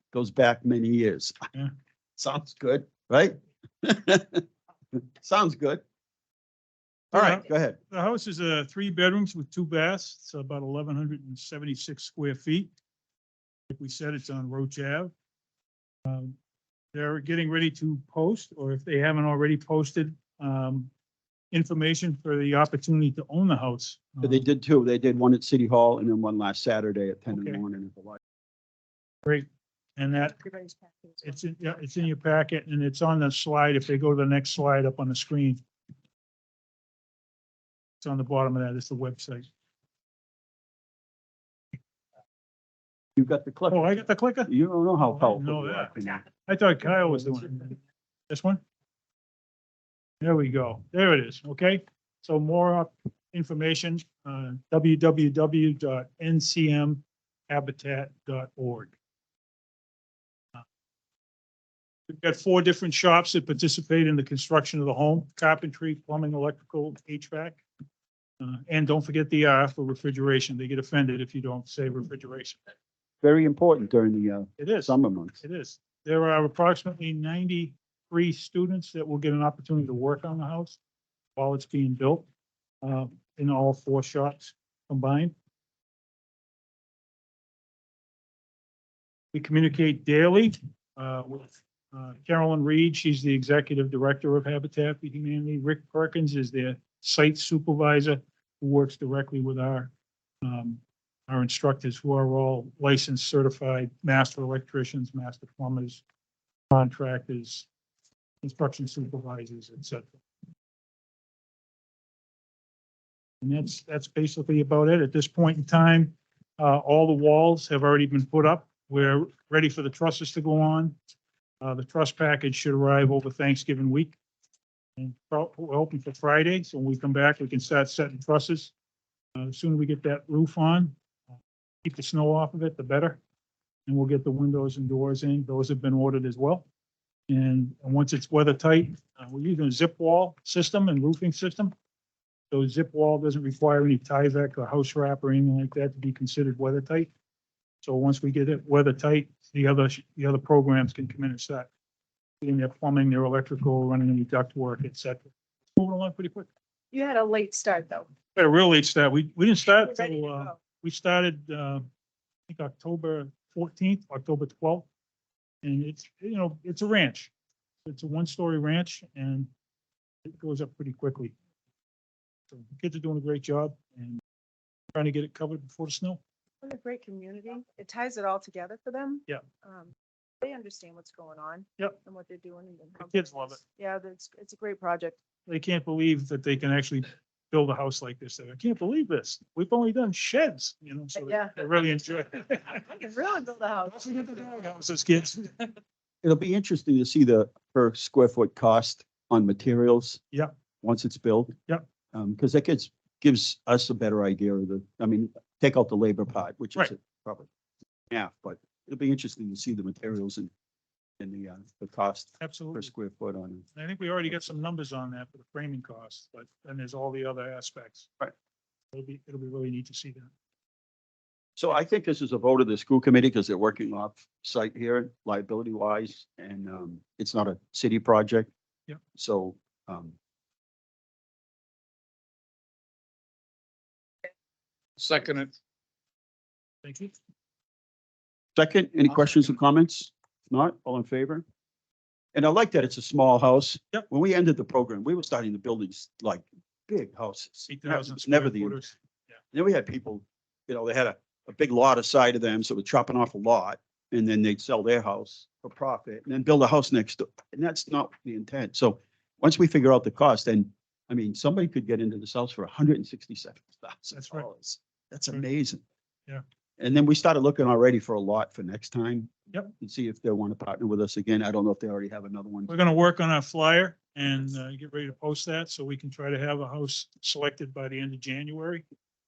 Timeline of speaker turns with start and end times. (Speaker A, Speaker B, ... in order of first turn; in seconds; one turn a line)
Speaker A: 0.1-1.4
Speaker A: 2.2-4.4
Speaker A: 5.0-5.8
Speaker B: 7.1-12.7
Speaker A: 7.1-7.8
Speaker B: 13.7-15.1
Speaker B: 16.1-16.4
Speaker B: 16.9-20.9
Speaker B: 21.5-24.4
Speaker A: 24.2-28.2
Speaker B: 27.3-27.6
Speaker B: 29.2-30.4
Speaker C: 30.3-31.4
Speaker B: 31.2-35.6
Speaker B: 38.0-39.5
Speaker A: 43.1-46.2
Speaker B: 43.7-47.8
Speaker B: 48.3-48.6
Speaker B: 50.2-58.9
Speaker B: 62.1-67.6
Speaker B: 68.4-72.7
Speaker A: 73.2-75.4
Speaker B: 74.6-80.8
Speaker B: 81.3-82.2
Speaker B: 82.8-85.3
Speaker B: 89.3-99.9
Speaker B: 100.4-106.0
Speaker B: 106.7-107.7
Speaker B: 108.4-110.1
Speaker B: 113.4-121.0
Speaker B: 121.6-124.2
Speaker B: 125.0-128.7
Speaker B: 129.3-130.9
Speaker B: 131.8-133.2
Speaker B: 133.9-136.6
Speaker B: 137.3-141.7
Speaker B: 142.5-147.1
Speaker B: 147.8-151.7
Speaker B: 152.4-156.5
Speaker C: 156.9-158.1
Speaker B: 158.3-161.9
Speaker C: 159.9-160.6
Speaker B: 162.5-164.9
Speaker B: 165.6-167.3
Speaker B: 167.8-169.5
Speaker B: 170.2-171.3
Speaker B: 172.5-174.2
Speaker B: 174.9-176.2
Speaker C: 176.6-185.2
Speaker B: 183.0-183.6
Speaker B: 185.5-193.0
Speaker C: 191.2-191.6
Speaker C: 192.8-193.9
Speaker B: 193.8-195.8
Speaker A: 196.2-200.2
Speaker A: 200.8-201.5
Speaker A: 202.1-207.5
Speaker A: 208.1-210.5
Speaker A: 211.2-213.6
Speaker B: 212.4-212.9
Speaker B: 213.7-218.1
Speaker B: 218.9-220.3
Speaker A: 221.6-228.5
Speaker A: 229.1-230.1
Speaker B: 235.0-235.5
Speaker B: 236.8-237.1
Speaker A: 238.6-241.4
Speaker A: 242.3-248.9
Speaker B: 247.7-248.9
Speaker A: 249.5-265.8
Speaker B: 264.1-264.4
Speaker A: 266.8-272.7
Speaker B: 272.7-278.8